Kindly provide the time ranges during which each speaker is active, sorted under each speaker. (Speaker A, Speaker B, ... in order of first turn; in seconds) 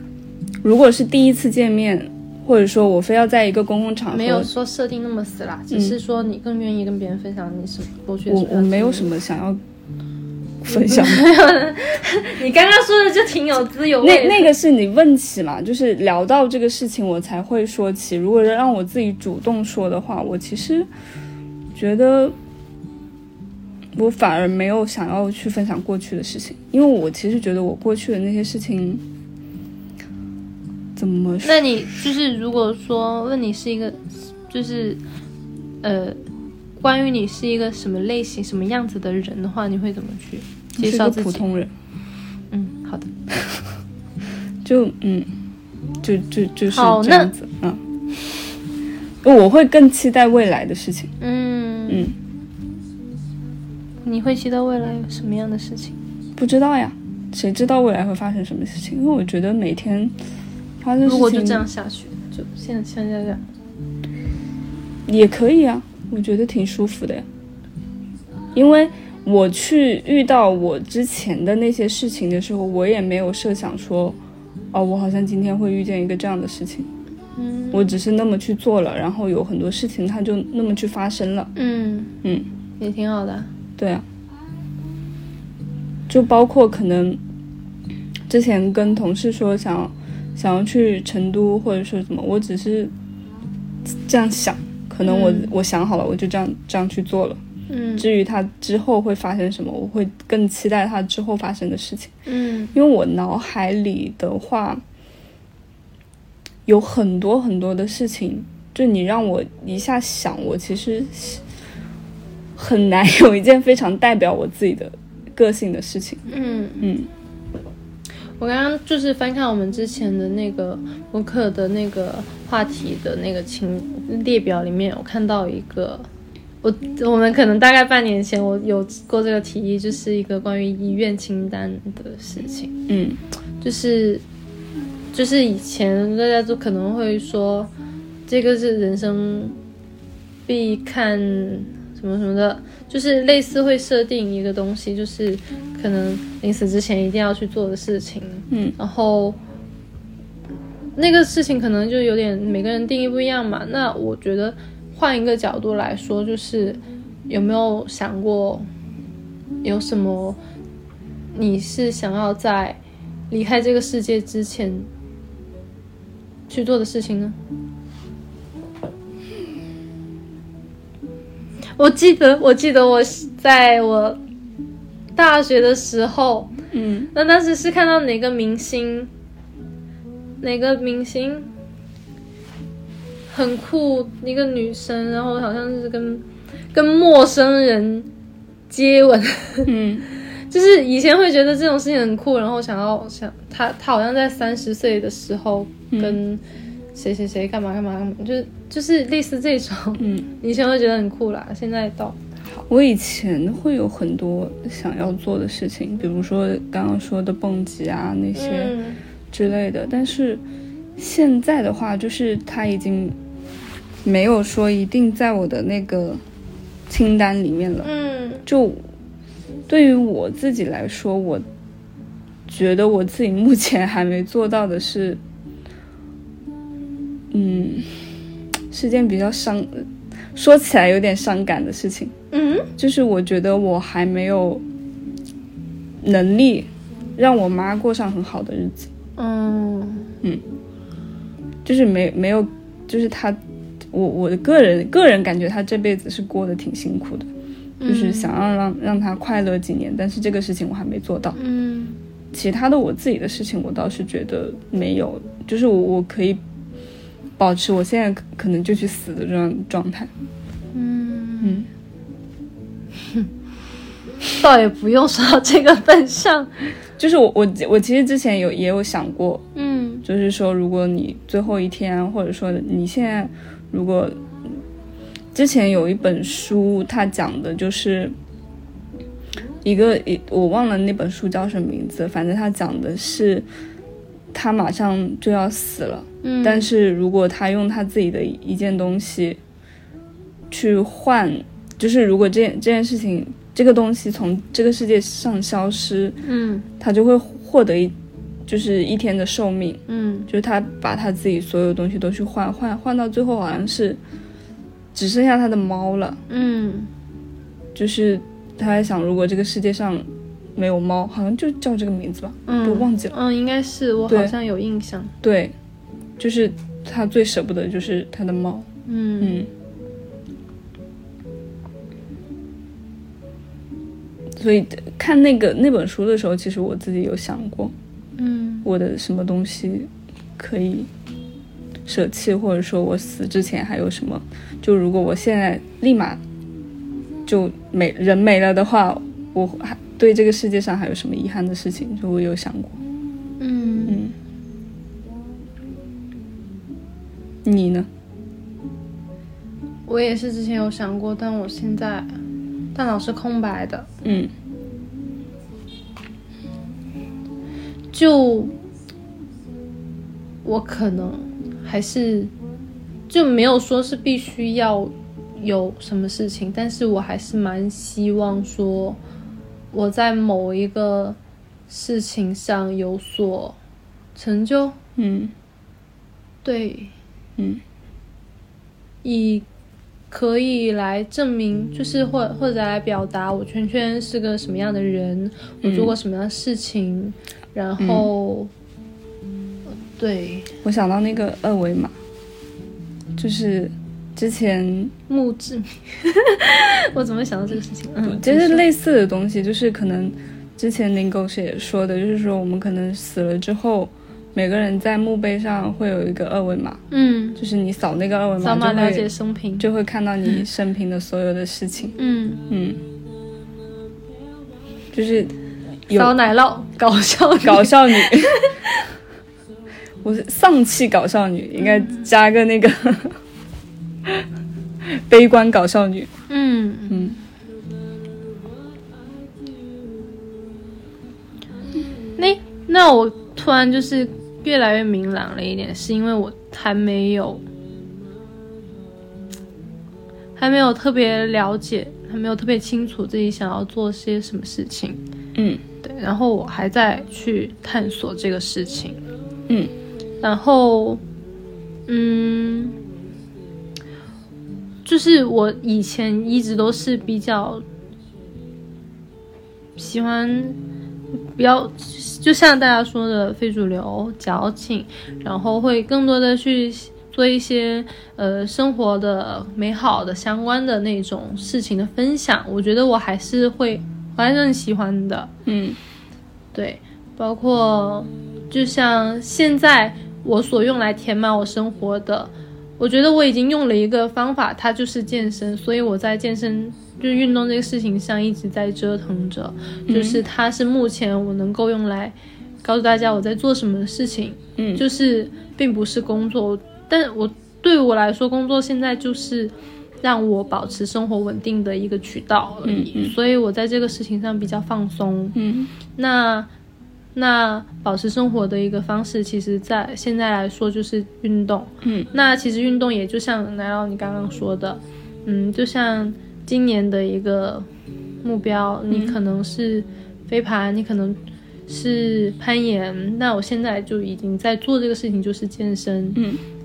Speaker A: 0.6-4.5, 5.7-6.0, 8.3-9.6, 10.6-11.3, 14.0-20.9, 21.7-22.4, 23.9-29.0, 31.0-31.7, 40.8-41.7, 44.6-45.3, 46.0-47.8, 49.2-51.1, 51.9-52.1, 56.4-60.1, 60.8-61.6, 65.1-67.3, 68.5-74.2, 74.7-76.9, 77.7-81.5, 83.8-84.0, 86.1-87.2, 88.3-92.9, 93.9-97.4, 98.0-102.1, 102.7-104.8, 106.7-111.4, 112.6-116.3, 116.8-117.1, 132.9-133.2, 148.5-148.8, 176.7-177.1, 189.7-190.1, 195.9-196.2, 200.0-200.3, 202.7-208.8, 209.3-210.4, 211.0-213.2, 214.1-216.2, 216.9-217.9, 218.4-218.8, 219.7-221.4, 222.5-225.2, 227.3-227.9, 228.7-232.1, 232.8-234.6, 236.0-238.9, 241.7-243.4, 243.9-247.3, 247.9-251.4, 252.3-256.4, 257.4-260.1, 261.4-261.7, 267.0-269.4, 270.0-274.2, 275.3-278.1, 279.6-283.4, 284.3-289.4, 290.5-296.2, 296.8-297.9, 298.5-304.0, 304.9-306.2, 307.8-313.1, 314.1-314.4, 315.2-315.5, 316.2-318.7, 319.2-319.5, 324.4-327.7, 328.6-330.9, 331.9-336.2, 337.3-342.8, 343.9-344.1, 347.4-347.9, 354.0-354.3, 375.0-375.3, 385.6-385.9, 387.8-388.1, 390.6-391.9, 393.2-394.9, 398.0-406.8, 407.4-409.1, 409.6-412.0, 412.5-412.8, 414.9-415.3, 415.9-416.1, 417.4-418.5, 420.0-423.2, 424.9-426.1, 426.9-427.2, 445.4-445.6, 475.5-475.8, 489.9-490.2, 494.6-494.8, 502.6-503.1, 505.4-505.7, 511.8-512.1, 518.9-519.2, 526.2-526.4
Speaker B: 4.1-9.1, 10.7-14.5, 31.4-35.0, 35.8-36.2, 36.8-41.4, 42.5-43.1, 46.7-47.3, 51.2-52.1, 54.0-56.0, 61.0-63.4, 77.4-77.9, 81.6-82.1, 82.8-83.5, 95.0-95.5, 97.7-98.1, 102.3-102.7, 116.3-116.9, 118.4-126.1, 126.6-132.7, 133.6-134.2, 135.1-137.7, 138.3-139.6, 140.5-149.4, 151.0-158.7, 159.6-160.4, 161.3-162.8, 163.3-164.9, 166.5-167.4, 171.8-174.2, 175.2-176.5, 177.1-179.1, 180.4-181.5, 183.3-188.1, 188.7-189.7, 190.5-196.4, 196.9-202.6, 208.3-209.0, 217.8-218.4, 232.3-232.7, 239.2-240.1, 247.8-248.3, 251.4-252.0, 260.7-261.7, 264.4-266.5, 269.6-270.0, 286.2-286.7, 296.2-296.7, 299.9-300.3, 306.3-306.9, 312.5-315.1, 318.9-319.5, 328.2-328.7, 343.4-344.0, 349.9-352.1, 352.8-353.9, 357.9-358.6, 360.4-362.3, 363.1-369.0, 369.7-371.2, 371.7-373.6, 374.1-374.8, 376.4-376.9, 379.0-379.4, 380.1-388.5, 390.0-390.5, 395.1-398.6, 406.9-407.4, 408.4-409.7, 412.0-412.4, 415.9-418.9, 426.3-427.0, 432.2-437.4, 440.4-445.0, 445.8-449.0, 450.2-451.0, 451.9-452.8, 454.9-457.6, 459.8-460.6, 461.4-475.3, 476.5-505.4, 505.9-506.5, 507.1-517.7, 518.2-526.2